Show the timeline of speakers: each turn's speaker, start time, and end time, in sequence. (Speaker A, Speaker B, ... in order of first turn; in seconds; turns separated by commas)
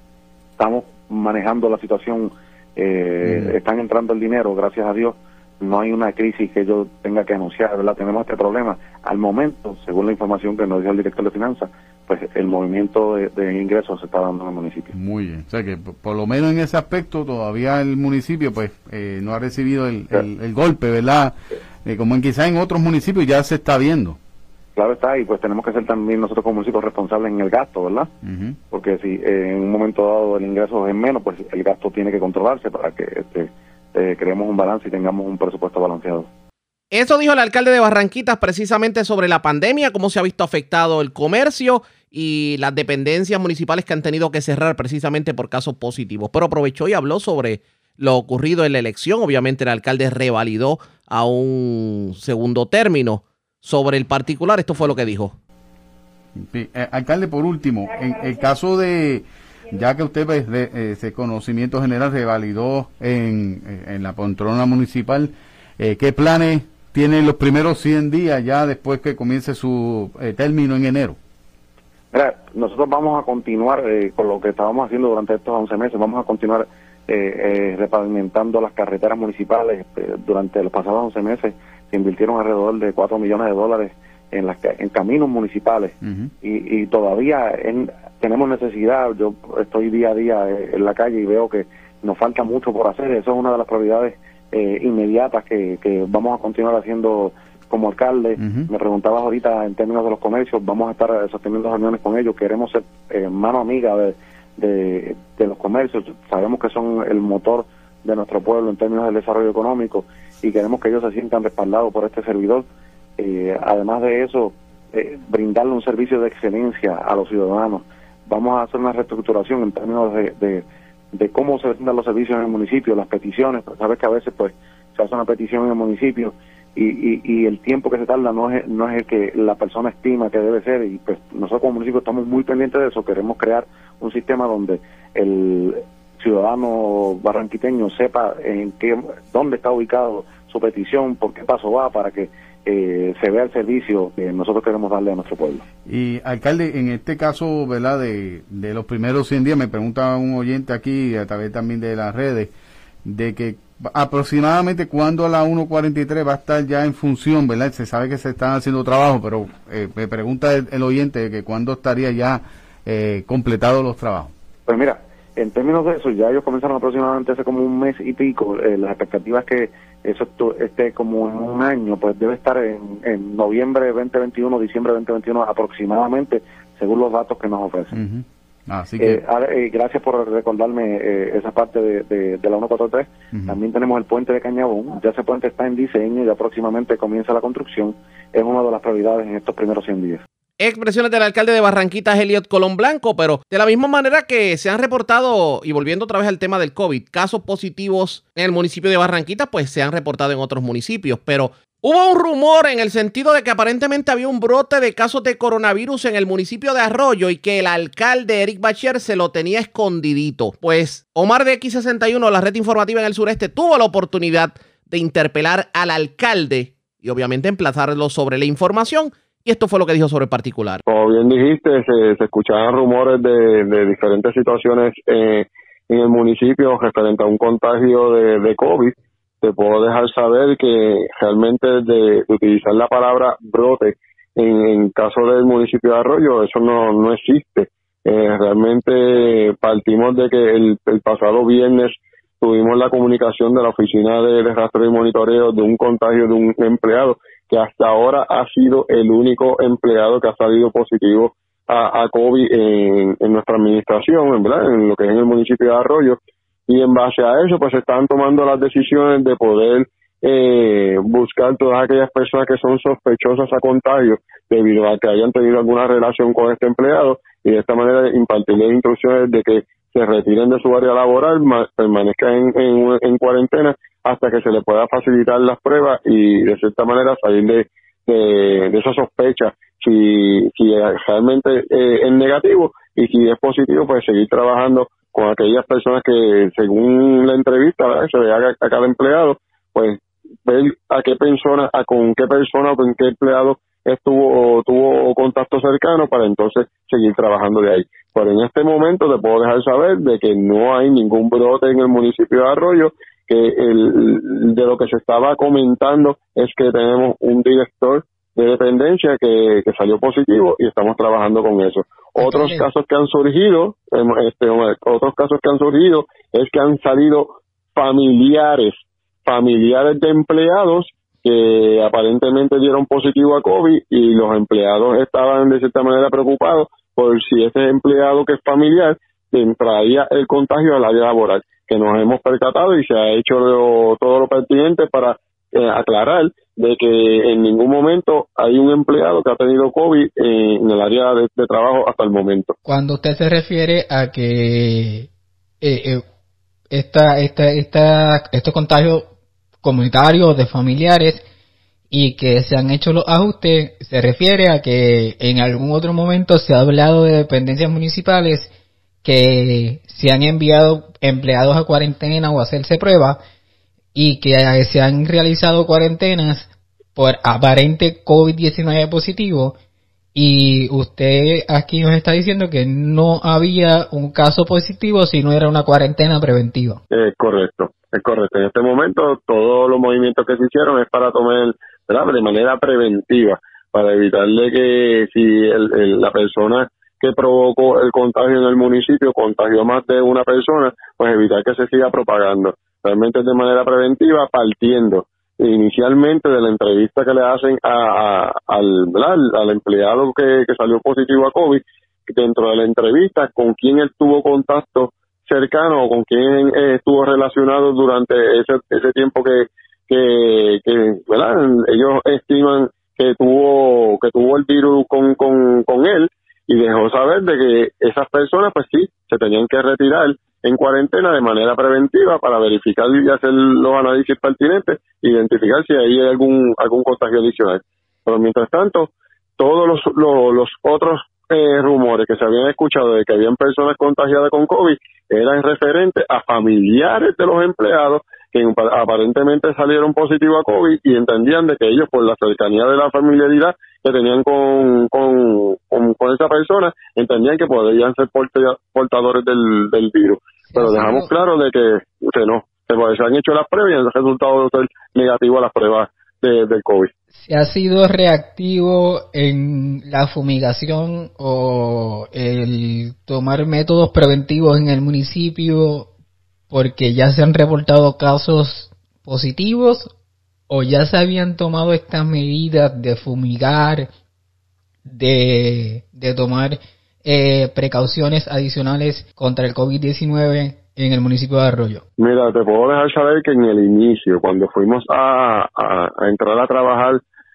Speaker A: 0.6-14.9, Speaker B: 3.2-3.5, Speaker B: 14.9-24.2, Speaker A: 24.8-28.1, Speaker B: 28.2-28.6, Speaker A: 28.7-36.3, Speaker C: 36.9-55.3, Speaker B: 56.4-71.2, Speaker A: 72.1-112.7, Speaker B: 86.0-86.3, Speaker B: 98.4-98.7, Speaker A: 113.2-145.6, Speaker B: 145.9-152.5, Speaker B: 153.1-164.3, Speaker A: 164.7-178.0, Speaker B: 177.9-179.2, Speaker A: 179.0-190.2, Speaker B: 183.3-183.6, Speaker C: 190.6-220.8, Speaker D: 220.9-342.5, Speaker E: 312.2-312.7, Speaker E: 342.6-345.1, Speaker E: 345.6-346.0, Speaker E: 346.7-349.1, Speaker E: 349.6-351.2, Speaker E: 351.9-358.5, Speaker E: 359.0-363.2, Speaker E: 363.9-369.6, Speaker E: 370.1-376.8, Speaker D: 376.9-456.9, Speaker E: 450.5-451.1, Speaker E: 457.2-465.9, Speaker E: 466.5-469.9, Speaker E: 470.5-473.9, Speaker E: 474.9-481.8, Speaker D: 482.0-487.0